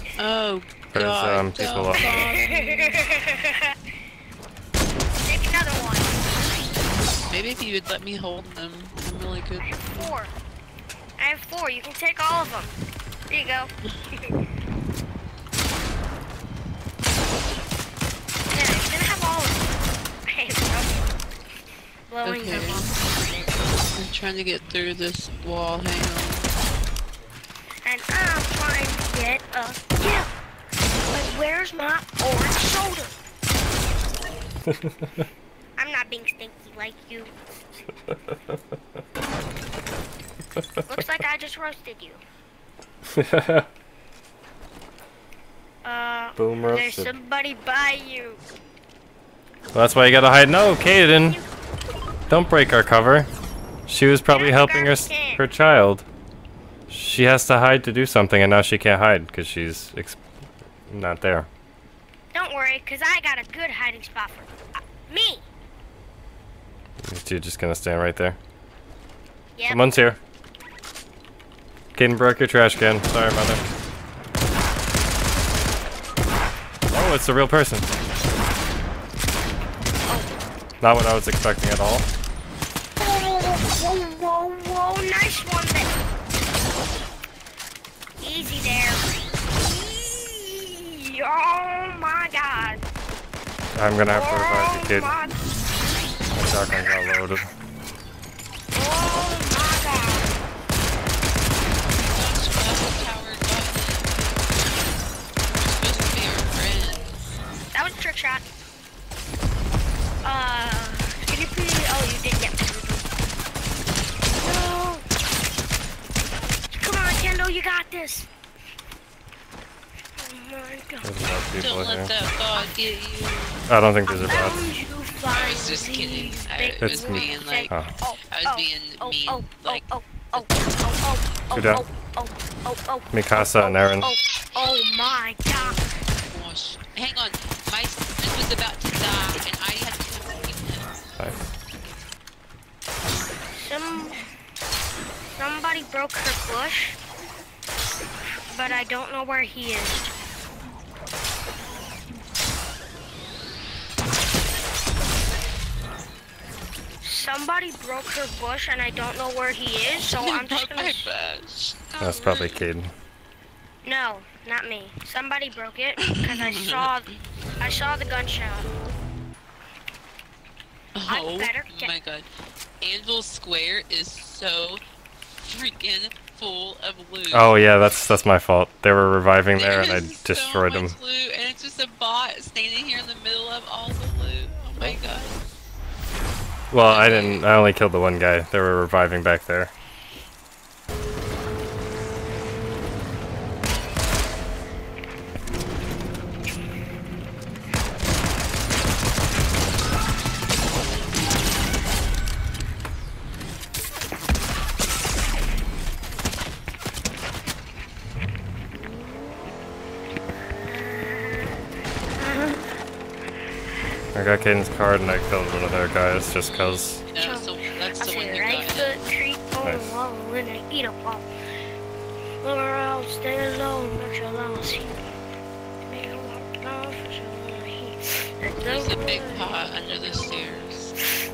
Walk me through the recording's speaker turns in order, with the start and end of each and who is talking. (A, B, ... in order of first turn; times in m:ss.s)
0:00.2-0:03.0 A
0:00.9-0:02.3 B
0:02.0-0:03.8 C
0:05.2-0:06.2 C
0:07.3-0:10.1 A
0:09.6-0:10.4 C
0:11.2-0:12.8 C
0:13.3-0:14.3 C
0:18.5-0:19.7 C
0:20.3-0:21.0 C
0:22.1-0:23.5 C
0:22.2-0:22.9 A
0:23.9-0:26.5 A
0:27.8-0:30.3 C
0:31.1-0:33.2 C
0:34.7-0:35.2 B
0:35.8-0:37.3 C
0:38.1-0:38.6 B
0:40.6-0:40.8 B
0:40.9-0:42.2 C
0:43.1-0:43.7 B
0:45.8-0:48.4 C
0:46.4-0:47.1 B
0:49.7-0:51.4 B
0:51.2-0:51.5 C
0:52.3-0:53.3 B
0:53.9-0:56.1 B
0:54.3-0:55.4 C
0:56.9-1:00.2 B
1:00.9-1:01.5 B
1:02.3-1:04.5 C
1:05.0-1:05.4 C
1:07.0-1:08.4 B
1:09.6-1:09.9 C
1:09.7-1:10.2 B
1:12.0-1:13.7 B
1:16.9-1:17.9 B
1:20.1-1:20.3 C
1:20.8-1:22.1 B
1:23.0-1:25.9 C
1:28.2-1:32.8 C
1:33.7-1:35.1 B
1:34.1-1:35.4 C
1:36.3-1:37.5 B
1:38.7-1:40.4 C
1:41.9-1:47.4 A
1:47.7-1:48.5 C
1:50.2-1:53.1 C
1:54.4-1:55.0 C
1:56.7-1:58.3 C
2:00.2-2:01.1 C
2:01.0-2:02.1 B
2:01.6-2:03.6 A
2:03.7-2:04.6 B
2:04.1-2:15.8 C
2:05.3-2:07.7 A
2:06.8-2:07.9 B
2:08.3-2:10.5 A
2:11.5-2:11.8 B
2:13.1-2:14.1 B
2:15.5-2:21.0 A
2:23.5-2:24.2 C
2:25.4-2:27.0 C
2:28.5-2:30.1 C
2:37.0-2:41.1 C
2:40.0-2:41.9 A
2:41.9-2:42.7 C
2:42.0-2:42.9 B
2:43.8-2:48.7 C
2:46.0-2:46.9 A
2:51.0-2:52.3 A
2:51.1-2:51.9 C
2:52.8-2:54.8 A
2:55.4-2:57.5 A
2:57.3-3:01.0 B
2:59.5-3:05.5 A
3:06.7-3:09.7 B
3:06.9-3:07.5 A
3:30.6-3:31.6 C
3:32.2-3:32.6 C
3:34.1-3:37.0 B
3:36.3-3:39.0 A
3:37.2-3:41.3 C
3:39.6-3:40.0 B
3:42.4-3:45.1 C
3:45.9-3:50.5 C
3:48.6-3:51.0 A